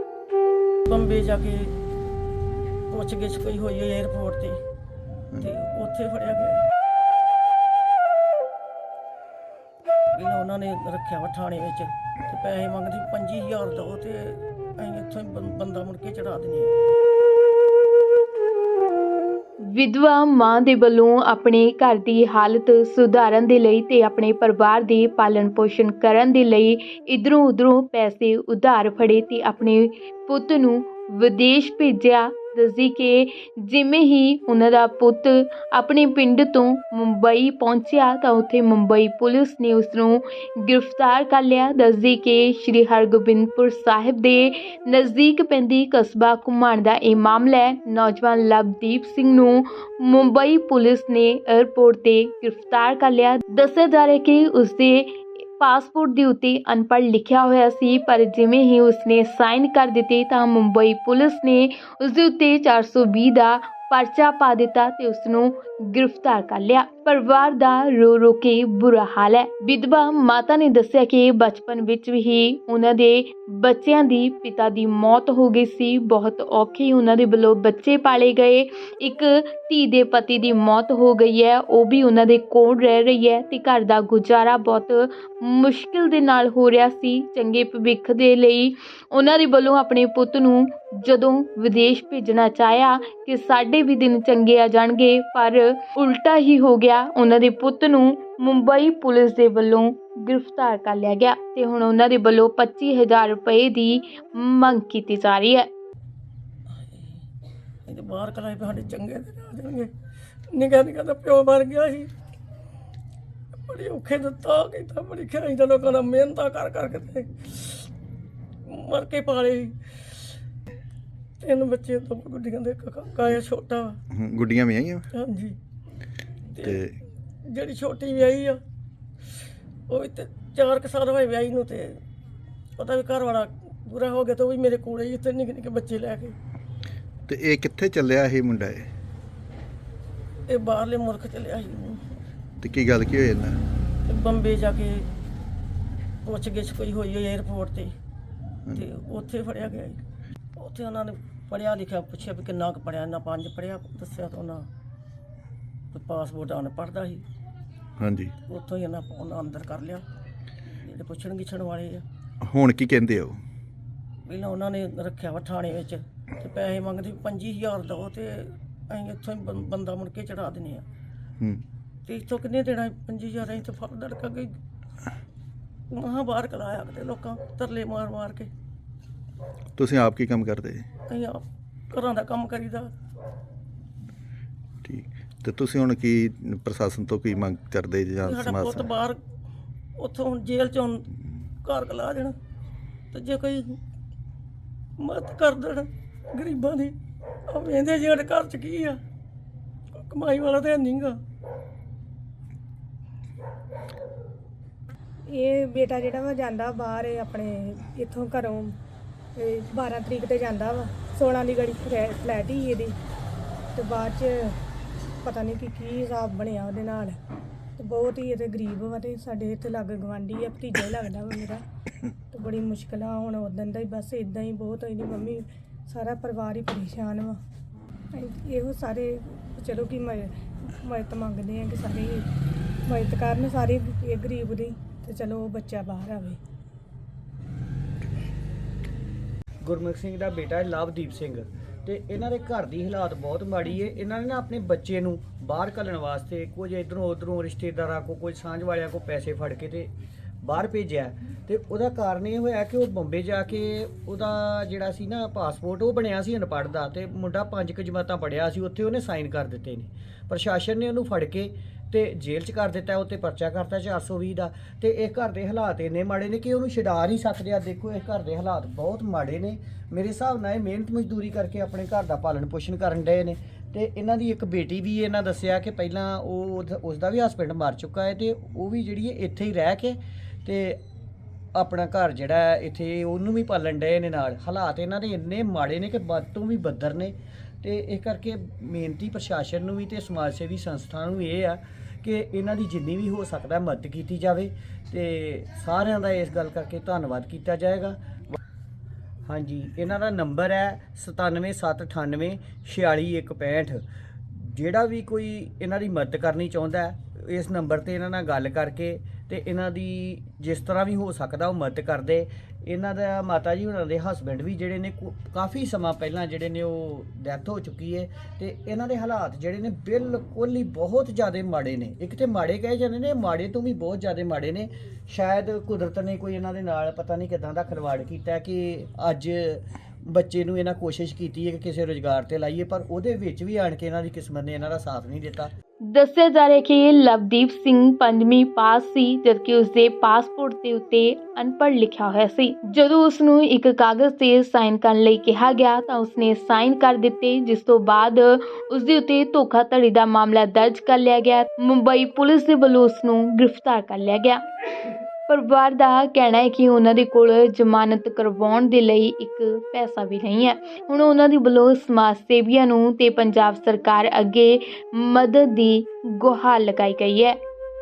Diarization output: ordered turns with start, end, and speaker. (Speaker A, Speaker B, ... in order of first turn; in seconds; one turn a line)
Speaker A: 0.9-1.7
Speaker A: 2.9-4.6
Speaker A: 5.4-6.6
Speaker A: 10.1-16.7
Speaker B: 19.7-105.7
Speaker A: 106.7-107.2
Speaker A: 107.9-109.9
Speaker A: 110.5-112.1
Speaker A: 113.7-117.9
Speaker A: 118.7-119.8
Speaker A: 121.4-124.0
Speaker C: 124.1-125.0
Speaker A: 125.1-125.6
Speaker A: 126.5-126.8
Speaker C: 126.6-127.0
Speaker A: 127.5-128.6
Speaker A: 129.9-132.0
Speaker A: 132.8-136.4
Speaker C: 137.3-138.9
Speaker A: 140.5-142.1
Speaker C: 142.6-143.6
Speaker A: 144.1-145.1
Speaker A: 146.2-147.9
Speaker A: 148.7-150.0
Speaker A: 150.6-154.7
Speaker A: 155.9-157.2
Speaker C: 158.0-158.3
Speaker A: 158.5-160.1
Speaker A: 160.8-162.0
Speaker C: 162.4-163.4
Speaker A: 164.3-170.9
Speaker A: 172.1-174.5
Speaker A: 175.9-178.5
Speaker C: 179.8-180.9
Speaker A: 181.1-182.9
Speaker C: 184.8-188.9
Speaker A: 188.2-189.2
Speaker A: 190.0-191.1
Speaker A: 191.6-192.4
Speaker A: 193.1-193.8
Speaker A: 195.0-196.9
Speaker A: 197.5-199.0
Speaker A: 199.9-201.2
Speaker D: 205.3-208.8
Speaker D: 209.4-213.0
Speaker D: 213.8-214.6
Speaker D: 215.2-217.2
Speaker D: 217.8-221.6
Speaker D: 222.3-227.4
Speaker D: 228.1-232.3
Speaker D: 232.9-236.4
Speaker E: 239.6-249.9
Speaker E: 250.4-280.8
Speaker E: 281.6-298.4
Speaker E: 299.3-335.5
Speaker B: 335.9-367.4